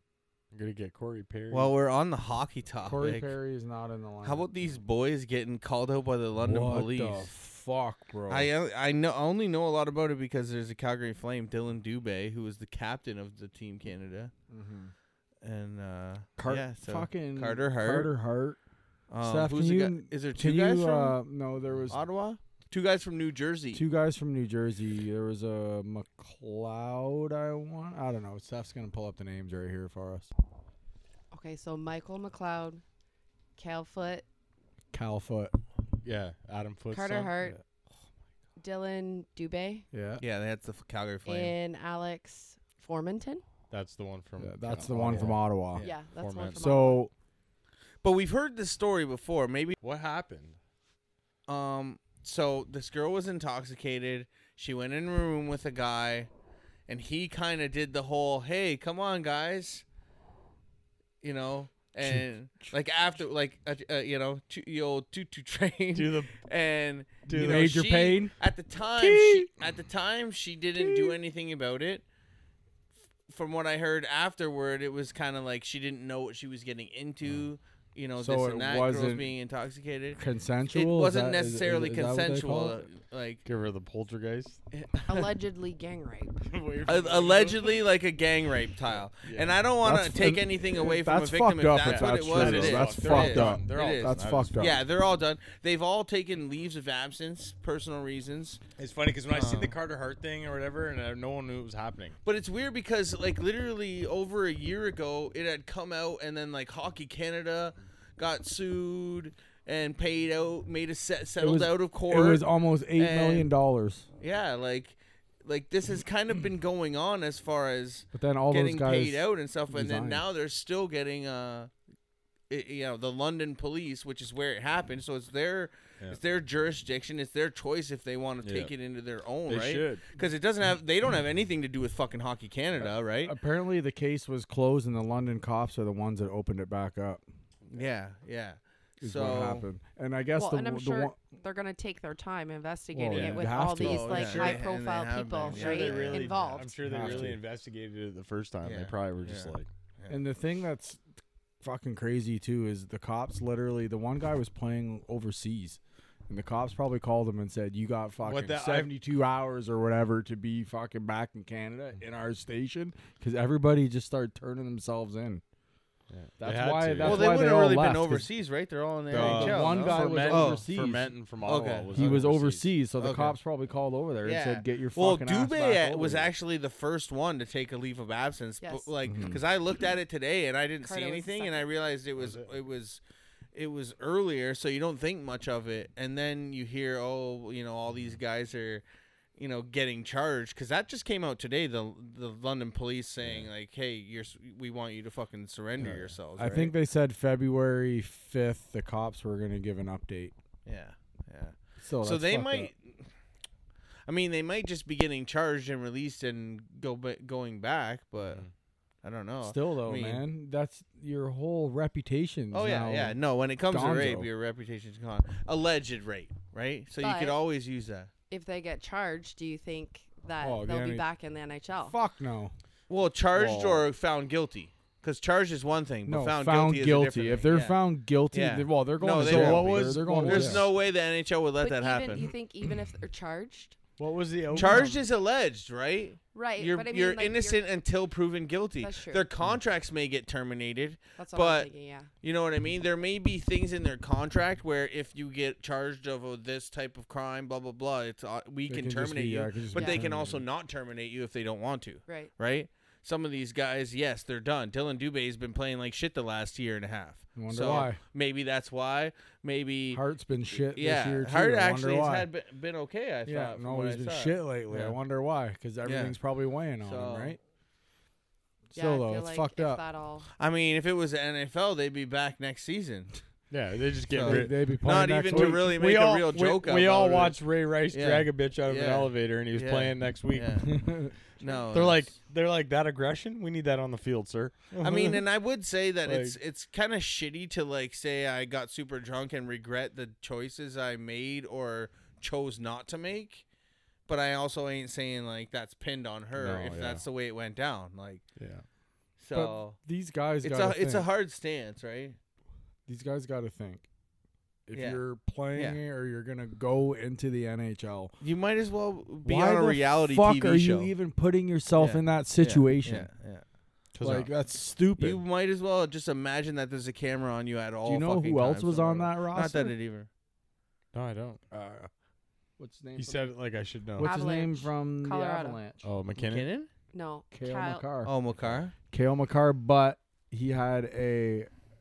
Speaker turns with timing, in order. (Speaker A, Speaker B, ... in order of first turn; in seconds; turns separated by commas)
Speaker A: 0.5-1.7, Speaker B: 1.5-3.4, Speaker C: 2.8-4.5, Speaker B: 4.2-7.3, Speaker C: 6.4-8.5, Speaker B: 8.3-14.3, Speaker C: 14.5-14.9, Speaker B: 15.4-18.1, Speaker C: 16.4-18.6, Speaker B: 19.1-21.2, Speaker C: 19.2-22.0, Speaker A: 21.7-22.0, Speaker B: 21.9-23.9, Speaker C: 23.7-30.3, Speaker D: 31.3-32.8, Speaker D: 33.6-34.2, Speaker C: 34.9-35.6, Speaker A: 36.0-37.3, Speaker D: 36.9-37.6, Speaker D: 38.6-39.9, Speaker C: 39.9-40.2, Speaker B: 40.2-41.5, Speaker D: 41.2-43.4, Speaker A: 43.7-46.7, Speaker C: 44.4-45.9, Speaker B: 45.1-45.3, Speaker D: 45.8-47.0, Speaker C: 46.6-47.1, Speaker B: 48.0-49.7, Speaker A: 49.8-50.6, Speaker B: 51.5-56.3, Speaker B: 56.9-59.8, Speaker B: 61.2-72.0, Speaker C: 62.0-62.7, Speaker A: 65.9-66.3, Speaker A: 67.2-67.8, Speaker C: 67.3-68.3, Speaker C: 69.0-69.5, Speaker C: 70.8-71.1, Speaker B: 73.3-80.2, Speaker C: 78.2-79.3, Speaker C: 80.2-82.9, Speaker B: 80.7-83.4, Speaker A: 83.4-84.6, Speaker B: 84.7-85.3, Speaker D: 85.1-86.5, Speaker A: 86.4-87.8, Speaker B: 86.9-98.6, Speaker A: 88.9-89.6, Speaker C: 89.8-94.8, Speaker A: 91.8-94.8, Speaker A: 98.8-102.2, Speaker B: 99.3-99.7, Speaker B: 102.2-112.4, Speaker C: 111.4-114.1, Speaker B: 112.9-113.5, Speaker B: 114.2-121.7, Speaker C: 118.1-120.2, Speaker B: 122.5-133.3, Speaker A: 128.4-128.7, Speaker A: 129.4-130.0, Speaker C: 132.8-137.2, Speaker B: 137.7-139.7, Speaker C: 139.0-141.2, Speaker D: 140.4-146.8, Speaker C: 142.9-144.2, Speaker A: 143.1-144.7, Speaker B: 143.8-147.3, Speaker A: 145.4-149.7, Speaker C: 146.8-147.4, Speaker B: 148.6-150.2, Speaker C: 150.1-151.0, Speaker C: 151.6-165.4, Speaker A: 158.2-158.9, Speaker A: 166.1-167.4, Speaker C: 166.4-168.3, Speaker B: 167.0-170.7, Speaker A: 169.1-172.7, Speaker C: 169.1-171.1, Speaker B: 171.4-172.0, Speaker C: 171.9-176.3, Speaker B: 173.0-173.3, Speaker B: 174.2-183.0, Speaker D: 178.6-178.9, Speaker C: 179.0-179.4, Speaker D: 180.8-181.7, Speaker A: 182.2-182.5, Speaker B: 183.5-188.8, Speaker B: 189.4-196.7, Speaker A: 193.2-193.5, Speaker A: 195.8-196.1, Speaker C: 196.4-200.3, Speaker B: 200.7-203.1, Speaker C: 201.8-202.7, Speaker B: 204.1-208.4, Speaker B: 209.0-210.2, Speaker C: 209.4-213.2, Speaker B: 212.5-218.1, Speaker C: 213.7-214.3, Speaker D: 217.0-217.4, Speaker D: 218.3-222.0, Speaker C: 220.4-221.1, Speaker C: 221.8-222.5, Speaker B: 222.9-227.8, Speaker A: 223.3-223.9, Speaker C: 226.1-230.7, Speaker B: 228.3-232.3, Speaker A: 229.2-230.7, Speaker D: 231.6-233.8, Speaker A: 234.0-235.0, Speaker B: 234.5-241.7, Speaker D: 236.3-237.6, Speaker D: 238.8-239.3, Speaker D: 241.2-242.1, Speaker B: 242.2-264.9, Speaker C: 248.7-250.4, Speaker D: 249.7-250.0, Speaker C: 257.4-258.0, Speaker C: 259.9-262.3, Speaker C: 263.2-267.4, Speaker B: 265.8-266.2, Speaker B: 266.8-267.4, Speaker C: 268.7-269.8, Speaker D: 268.7-270.3, Speaker B: 270.4-273.1, Speaker A: 273.5-280.7, Speaker B: 274.1-280.9, Speaker C: 274.2-275.7, Speaker C: 280.6-281.1, Speaker B: 281.4-282.1, Speaker A: 281.7-285.2, Speaker B: 284.8-293.4, Speaker A: 286.0-286.4, Speaker B: 294.1-298.2, Speaker A: 296.4-297.0, Speaker A: 298.4-298.6, Speaker B: 299.2-299.8, Speaker C: 299.3-301.1, Speaker B: 300.4-302.2, Speaker C: 302.9-303.9, Speaker C: 304.7-308.1, Speaker B: 304.7-305.0, Speaker B: 308.2-310.9, Speaker C: 309.2-313.1, Speaker B: 311.8-313.5, Speaker A: 313.9-314.3, Speaker C: 314.0-315.2, Speaker B: 315.0-320.1, Speaker C: 317.9-319.7, Speaker A: 320.9-321.4, Speaker C: 321.5-321.9, Speaker C: 322.6-323.3, Speaker A: 323.0-324.1, Speaker C: 324.0-325.9, Speaker D: 324.0-325.6, Speaker A: 325.8-326.5, Speaker B: 326.1-326.7, Speaker D: 326.9-327.9, Speaker C: 327.3-328.1, Speaker B: 328.0-328.7, Speaker C: 328.9-331.5